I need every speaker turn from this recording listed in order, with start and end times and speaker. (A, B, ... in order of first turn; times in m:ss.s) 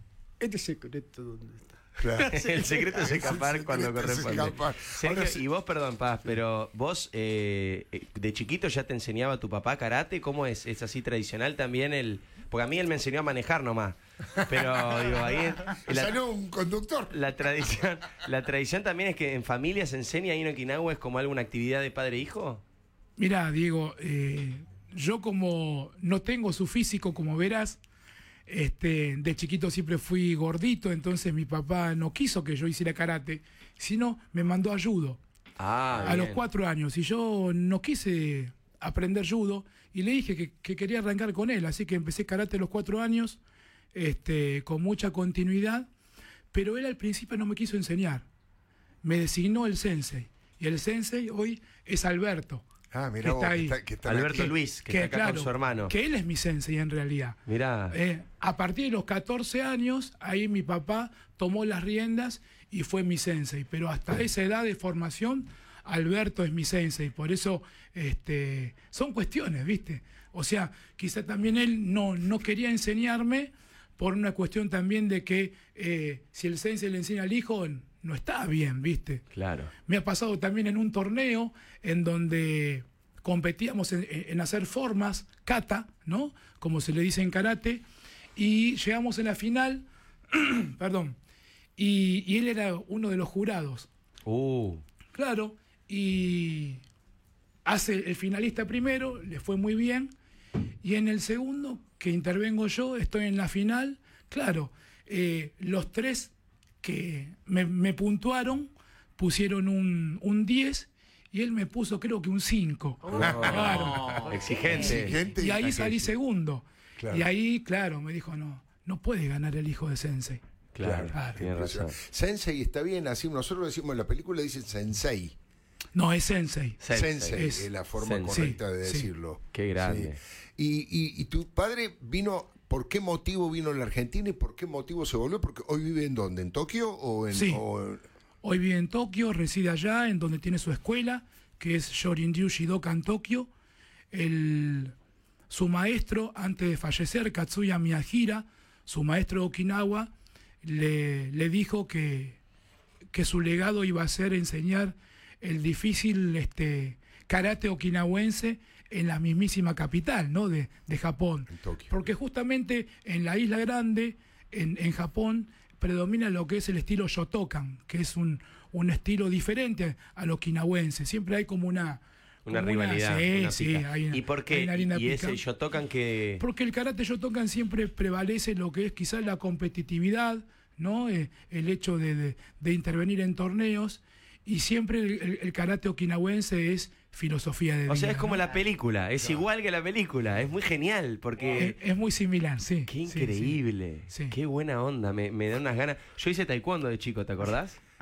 0:00.4-0:03.4 A
0:02.0-0:02.4 B
0:02.3-0:16.2 C
0:02.9-0:05.4 B
0:14.5-0:15.1 B
0:15.8-0:17.2 B
0:17.1-0:22.6 C
0:23.2-0:27.8 D
0:28.5-0:35.2 D
0:35.6-0:36.4 C
0:36.0-0:43.4 D
0:43.9-0:45.9 D
0:46.5-0:48.2 D
0:49.0-0:52.6 D
0:52.9-0:54.5 B
0:53.2-0:53.8 D
0:54.0-0:55.9 C
0:54.4-0:57.4 D
0:57.5-0:57.9 C
0:57.9-1:19.2 D
1:19.3-1:19.7 C
1:19.8-1:27.8 D
1:28.4-1:31.2 D
1:31.8-1:33.9 D
1:34.2-1:34.8 C
1:35.1-1:36.8 D
1:37.6-1:40.1 D
1:40.8-1:54.2 D
1:53.1-1:55.2 C
1:53.2-1:54.0 B
1:54.6-1:56.1 B
1:54.9-2:00.4 D
1:57.0-1:57.2 B
2:00.7-2:01.9 C
2:00.8-2:05.3 B
2:01.1-2:01.4 D
2:05.9-2:06.8 D
2:06.8-2:07.4 C
2:06.9-2:18.0 B
2:07.3-2:07.7 D
2:08.0-2:08.4 C
2:08.3-2:09.1 D
2:09.5-2:10.2 C
2:17.3-2:17.6 D
2:18.4-2:23.5 D
2:24.1-2:24.9 D
2:25.5-2:30.1 D
2:30.6-2:32.4 D
2:33.1-2:55.4 D
2:41.5-2:42.1 B
2:52.4-2:56.4 C
2:56.4-3:08.4 D
3:07.9-3:11.8 C
3:11.6-3:13.6 D
3:12.9-3:17.8 C
3:14.1-3:14.4 D